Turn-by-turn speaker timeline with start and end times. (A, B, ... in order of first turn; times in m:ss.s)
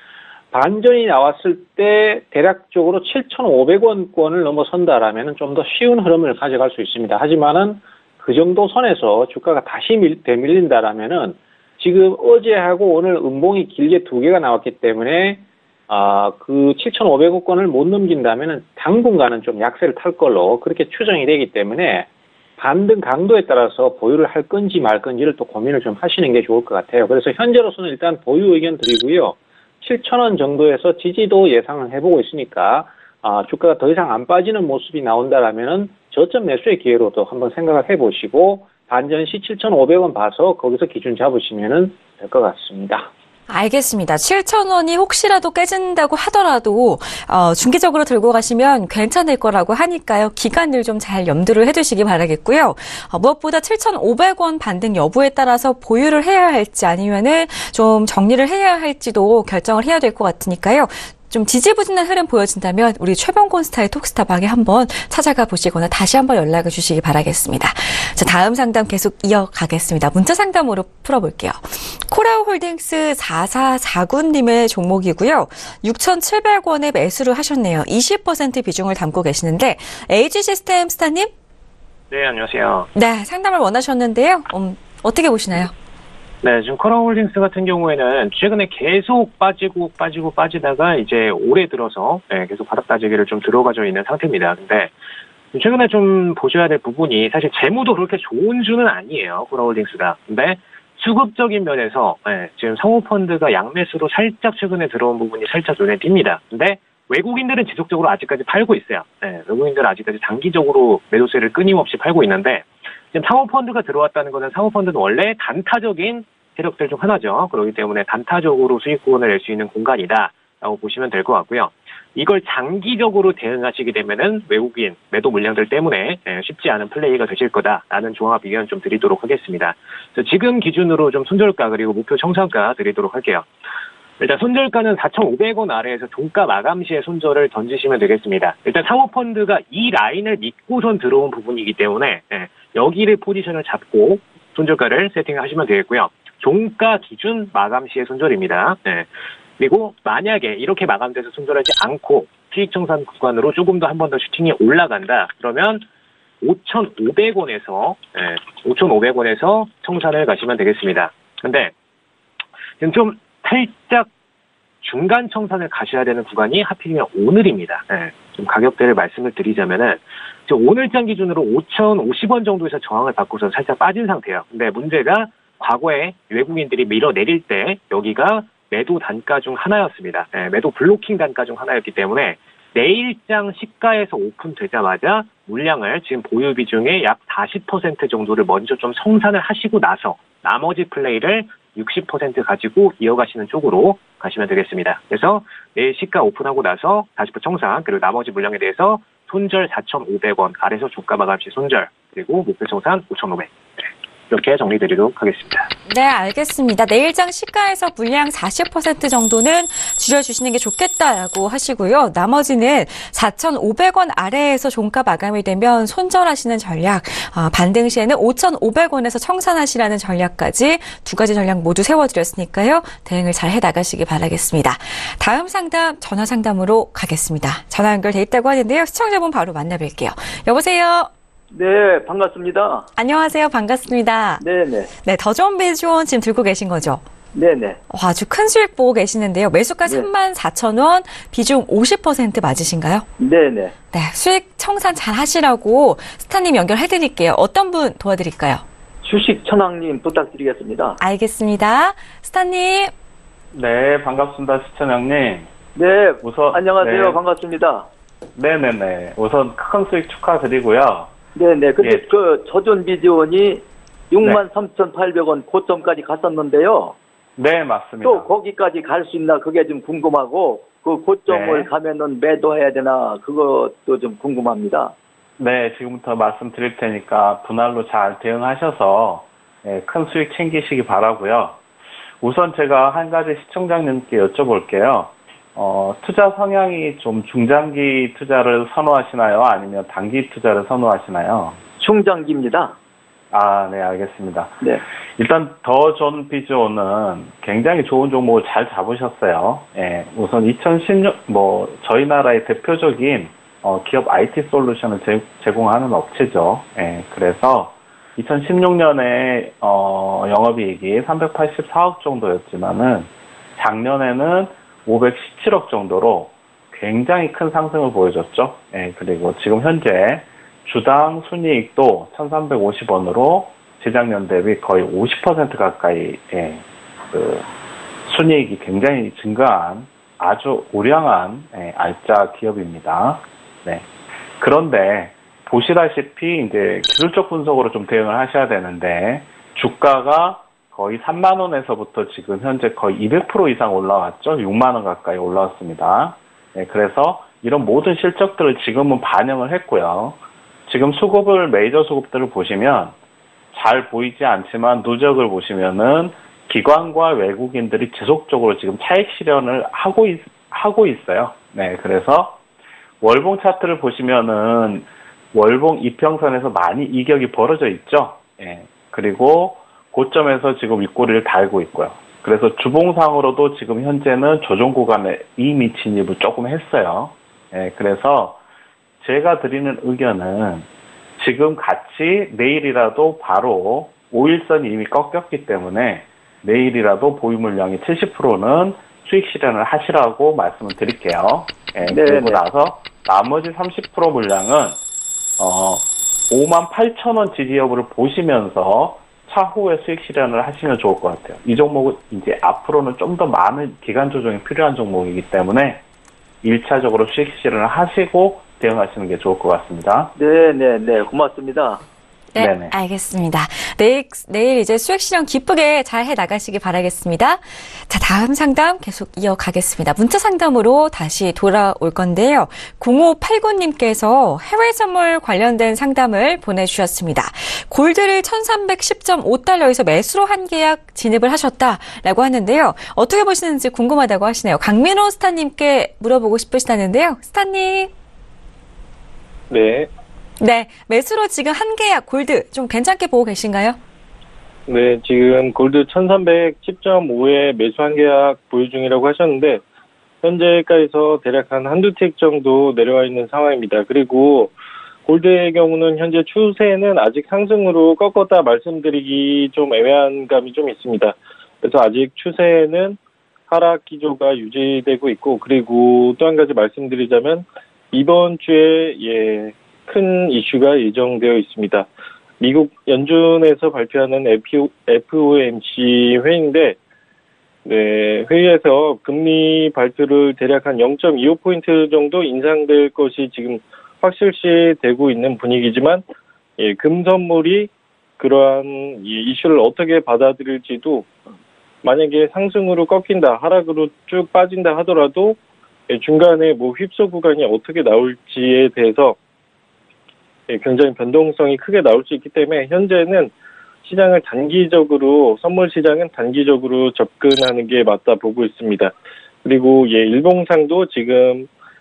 0:00.5-0:43.1 A
0:43.5-1:21.3 B
1:22.1-1:22.9 C
1:22.9-1:25.7 B
1:26.4-1:34.9 C
1:35.5-2:13.5 C
2:14.2-2:35.8 C
2:36.4-2:41.7 C
2:42.8-2:44.1 C
2:44.8-3:25.7 C
3:25.9-3:51.1 B
3:51.5-3:52.9 D
3:53.0-3:54.4 B
3:54.4-3:54.9 D
3:55.0-3:57.0 B
3:57.3-3:57.8 D
3:57.9-4:03.1 B
4:03.2-4:03.7 D
4:03.9-4:08.6 B
4:09.0-4:11.0 D
4:11.0-4:12.9 B
4:13.5-4:15.5 E
4:15.8-4:17.9 D
4:16.2-4:17.2 E
4:18.4-4:21.1 E
4:21.3-4:27.0 D
4:21.8-4:22.1 E
4:27.4-4:28.3 E
4:28.0-4:34.9 D
4:31.3-4:31.7 E
4:35.4-4:41.6 E
4:42.2-4:51.6 E
4:51.8-4:52.8 D
4:53.3-4:54.6 E
4:55.2-5:27.5 E
5:28.0-5:33.8 E
5:34.4-5:52.9 E
5:53.5-6:02.4 E
6:03.0-6:18.4 E
6:19.0-6:34.8 E
6:31.8-6:32.4 D
6:35.4-6:45.8 E
6:46.4-6:50.1 E
6:50.2-6:51.8 D
6:52.3-7:17.9 B
6:52.4-6:52.7 E
7:19.5-7:19.9 F
7:20.4-7:23.8 B
7:24.7-7:29.6 F
7:30.2-7:34.5 F
7:35.0-7:43.0 F
7:43.5-7:51.9 F
7:52.4-7:56.8 F
7:57.6-8:06.0 F
8:06.6-8:11.1 F
8:11.8-8:15.4 F
8:15.9-8:19.2 F
8:20.5-8:23.3 F
8:23.8-8:31.5 F